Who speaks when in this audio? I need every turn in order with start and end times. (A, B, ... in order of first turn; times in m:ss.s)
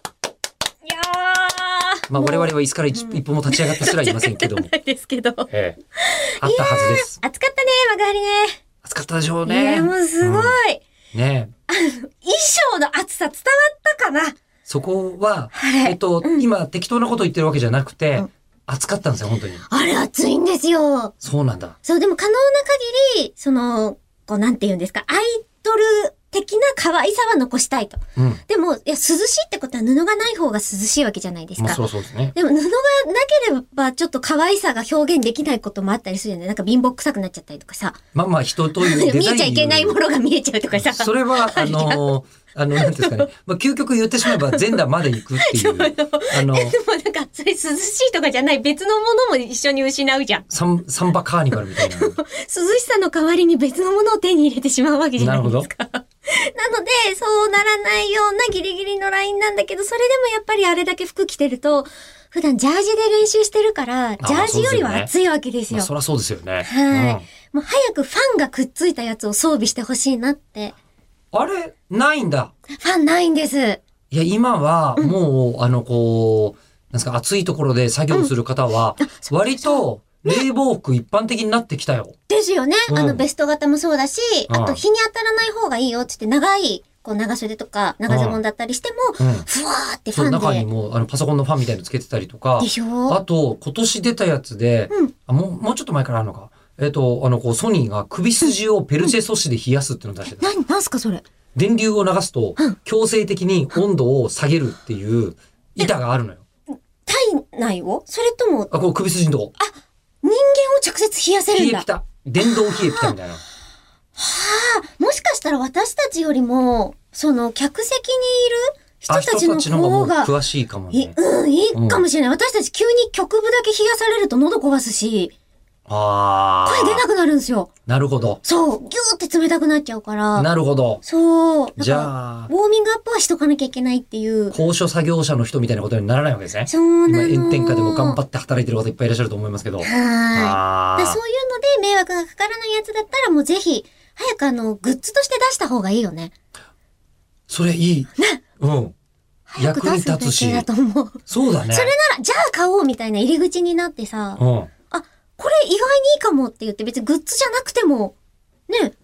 0:00.8-0:08.6 A
0:02.1-0:04.7 B
0:05.5-0:05.8 B
0:06.4-0:07.2 B
0:08.8-0:10.5 B
0:09.4-0:10.8 A
0:11.1-0:11.5 B
0:11.7-0:14.4 A
0:14.7-0:19.6 B
0:15.5-0:16.5 A
0:19.6-0:21.1 A
0:21.2-0:21.8 B
0:21.8-0:31.8 A
0:28.2-0:28.4 B
0:31.6-0:32.4 B
0:32.4-0:38.0 A
0:38.1-0:40.0 B
0:38.8-0:42.2 A
0:40.7-0:46.8 B
0:42.7-0:43.3 A
0:44.2-0:50.5 A
0:50.5-0:52.2 B
0:51.7-1:05.9 A
0:55.2-0:55.7 B
1:04.2-1:05.1 B
1:05.7-1:07.2 B
1:06.6-1:10.7 A
1:11.3-1:12.5 B
1:12.8-1:13.8 A
1:14.1-1:22.1 B
1:19.0-1:20.4 A
1:22.3-1:30.7 A
1:22.9-1:23.2 B
1:24.5-1:24.8 B
1:28.1-1:28.4 B
1:29.2-1:29.4 B
1:30.1-1:40.5 B
1:32.6-1:33.2 A
1:38.4-1:39.1 A
1:40.3-1:41.2 A
1:41.6-1:46.4 B
1:47.0-1:48.7 A
1:48.7-1:49.5 B
1:49.6-1:51.8 A
1:51.5-1:53.4 B
1:52.4-1:53.2 A
1:54.2-2:00.3 A
1:59.1-2:01.2 B
2:00.9-2:05.3 A
2:01.7-2:02.0 B
2:05.9-2:07.0 B
2:06.6-2:07.7 A
2:07.9-2:08.4 B
2:08.4-2:10.5 A
2:10.3-2:11.0 B
2:11.0-2:14.6 A
2:11.8-2:12.5 B
2:14.5-2:21.2 B
2:16.7-2:18.2 A
2:19.8-2:26.3 A
2:27.5-2:28.9 B
2:29.5-2:34.4 A
2:29.6-2:30.7 B
2:31.3-2:31.9 B
2:34.4-2:34.7 B
2:34.9-2:38.1 A
2:38.7-2:38.9 A